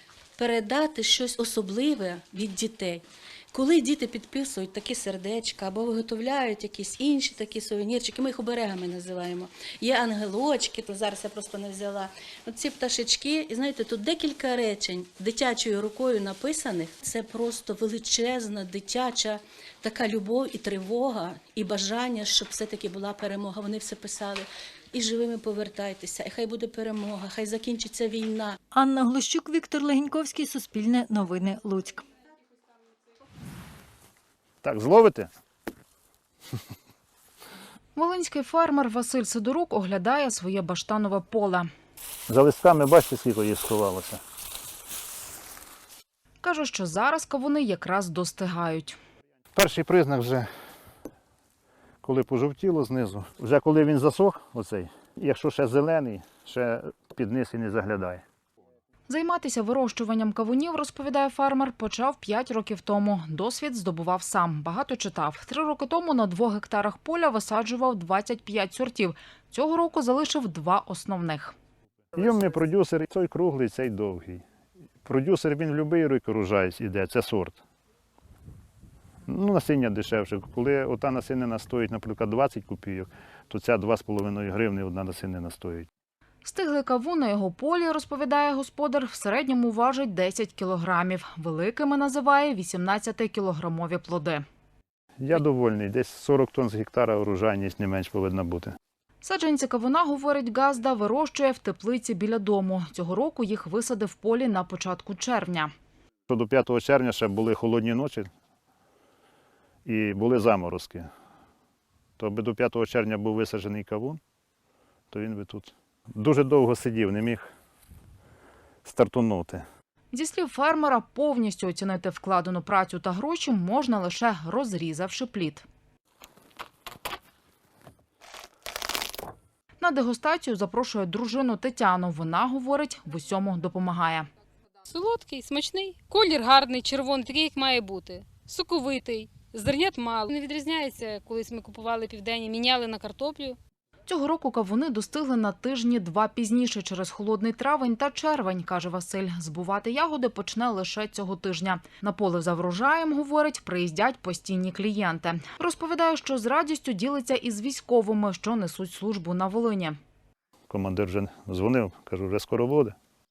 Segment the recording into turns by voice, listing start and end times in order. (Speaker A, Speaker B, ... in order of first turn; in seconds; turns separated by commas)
Speaker A: 0.4-28.6, Speaker B: 28.7-32.0, Speaker C: 34.6-35.3, Speaker D: 37.9-41.7, Speaker C: 42.3-44.2, Speaker D: 46.4-49.0, Speaker C: 49.5-50.5, Speaker C: 52.0-58.2, Speaker D: 59.1-71.5, Speaker C: 72.2-74.4, Speaker C: 75.0-77.6, Speaker C: 79.3-85.9, Speaker D: 86.4-94.4, Speaker C: 95.2-98.7, Speaker D: 99.2-105.7, Speaker C: 106.3-108.3, Speaker C: 109.8-111.1, Speaker C: 112.2-114.2, Speaker C: 115.1-117.5, Speaker C: 118.8-119.6, Speaker D: 120.1-125.6, Speaker D: 129.8-134.3, Speaker E: 134.9-143.6, Speaker D: 144.1-160.0, Speaker C: 160.7-162.9